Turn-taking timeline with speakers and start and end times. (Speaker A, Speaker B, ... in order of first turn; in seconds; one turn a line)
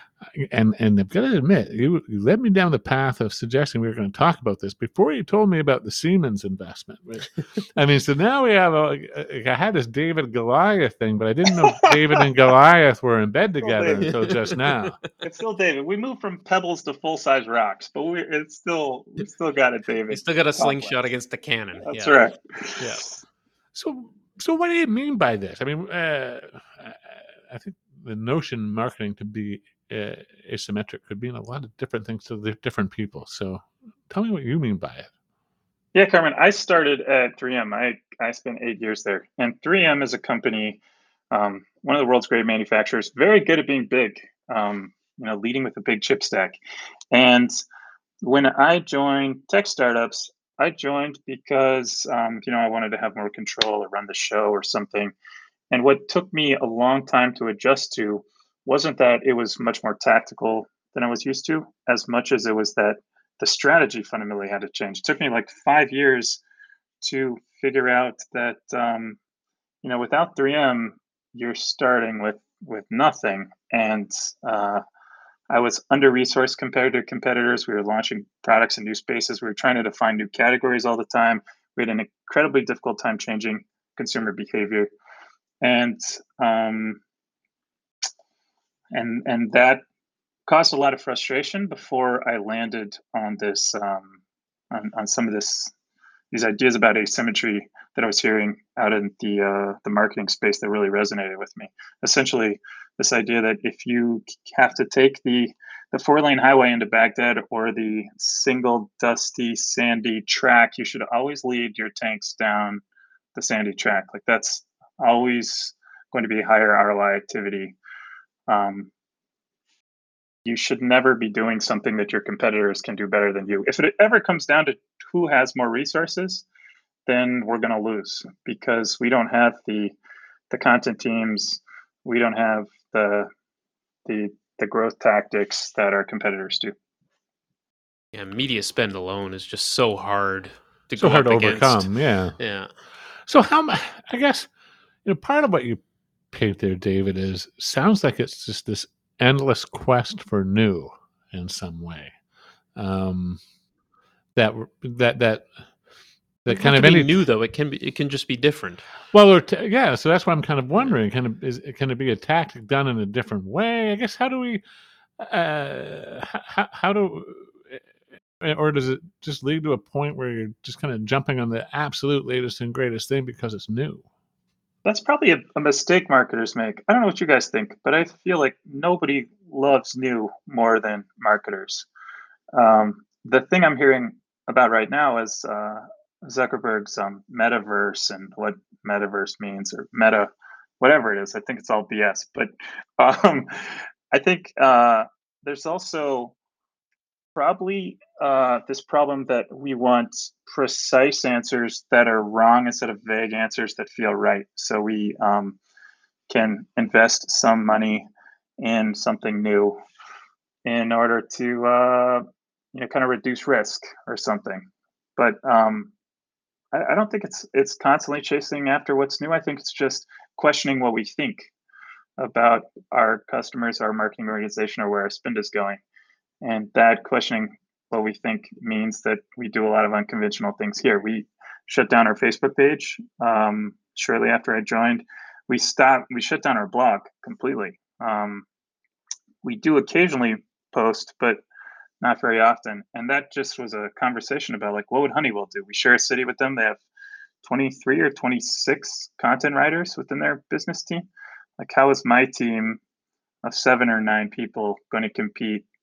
Speaker A: 0.2-15.0
Speaker B: 11.8-12.2
Speaker B: 13.6-14.1
Speaker C: 14.0-14.7
Speaker B: 15.2-21.1
Speaker C: 20.1-22.2
Speaker B: 21.9-23.2
Speaker A: 23.7-35.1
Speaker B: 35.9-46.6
Speaker B: 47.1-47.6
Speaker B: 48.2-55.1
Speaker B: 55.7-66.4
Speaker B: 67.0-69.2
Speaker B: 69.8-74.8
Speaker B: 75.5-84.9
Speaker B: 85.6-87.0
Speaker B: 88.9-89.8
Speaker B: 90.5-94.2
Speaker B: 94.7-95.7
Speaker B: 96.3-112.8
Speaker B: 113.3-117.8
Speaker B: 118.5-118.9
Speaker B: 120.5-126.5
Speaker B: 127.1-130.0
Speaker B: 130.5-133.3
Speaker B: 134.1-136.7
Speaker C: 138.1-141.9
Speaker A: 141.0-142.4
Speaker C: 142.4-142.7
Speaker A: 143.3-144.5
Speaker A: 145.1-145.8
Speaker A: 146.3-152.2
Speaker A: 152.8-153.4
Speaker A: 154.3-155.5
Speaker A: 156.4-157.1
Speaker C: 156.5-158.8
Speaker A: 159.1-164.6
Speaker A: 165.2-167.8
Speaker A: 168.4-174.0
Speaker B: 174.8-181.9
Speaker B: 182.5-196.3
Speaker B: 197.3-205.6
Speaker B: 206.3-208.1
Speaker B: 208.6-209.8
Speaker B: 210.7-215.9
Speaker B: 216.7-221.5
Speaker B: 222.2-225.8
Speaker B: 226.4-238.4
Speaker B: 239.4-241.4
Speaker B: 242.0-246.8
Speaker B: 247.4-251.1
Speaker B: 251.6-252.8
Speaker B: 253.4-255.6